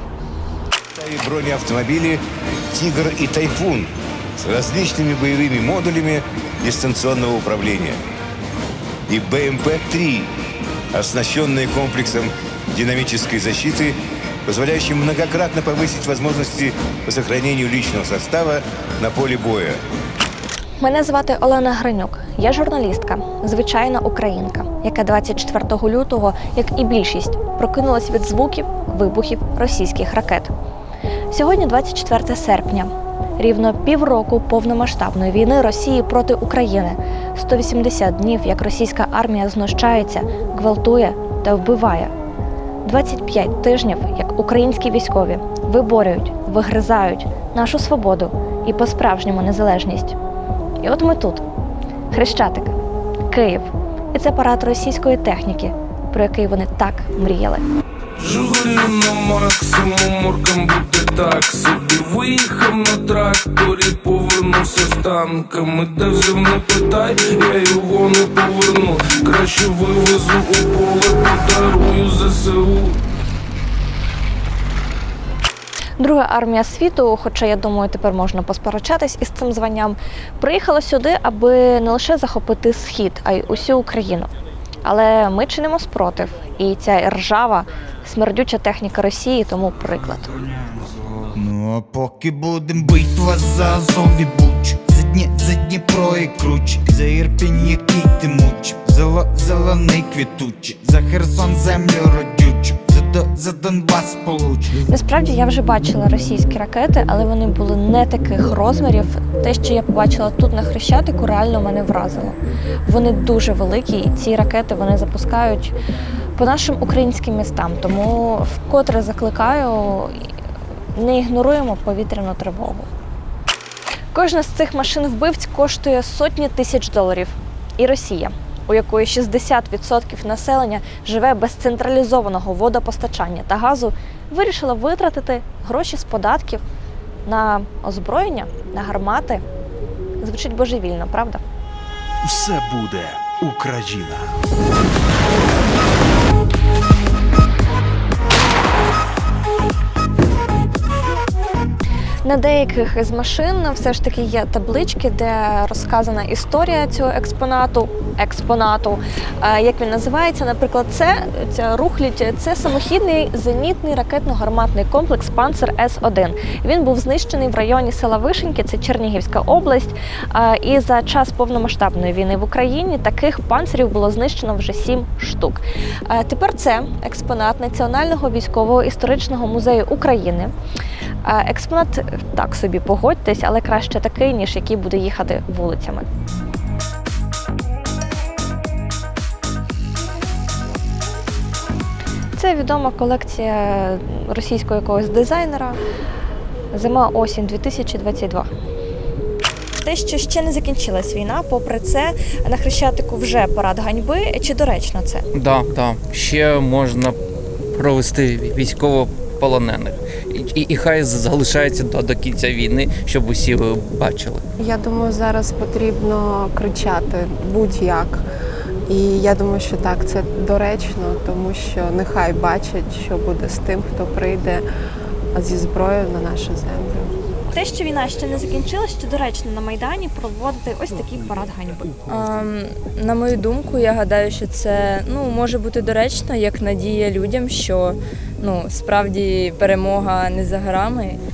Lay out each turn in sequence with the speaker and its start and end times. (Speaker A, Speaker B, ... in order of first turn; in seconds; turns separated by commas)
Speaker A: 0.9-8.0, Speaker A: 9.1-10.3, Speaker A: 10.9-14.0, Speaker A: 14.5-19.8, Speaker B: 20.8-30.5, Speaker B: 31.3-42.1, Speaker B: 42.8-50.2, Speaker B: 50.8-51.4, Speaker B: 52.1-52.7, Speaker B: 53.3-57.6, Speaker C: 58.2-73.0, Speaker B: 76.0-84.3, Speaker B: 84.8-90.4, Speaker D: 91.2-104.8, Speaker B: 104.9-115.8, Speaker B: 116.4-120.3, Speaker B: 121.0-122.9, Speaker B: 124.1-136.6, Speaker B: 137.3-139.4, Speaker B: 140.2-141.4, Speaker E: 142.2-144.4, Speaker B: 152.2-180.5, Speaker B: 181.2-186.1, Speaker B: 192.4-195.8, Speaker B: 196.7-198.5, Speaker B: 199.8-205.3, Speaker F: 205.3-207.2, Speaker F: 207.7-214.4, Speaker G: 214.6-218.2, Speaker G: 218.9-224.6, Speaker G: 225.3-227.1, Speaker B: 227.5-232.0, Speaker H: 232.1-241.2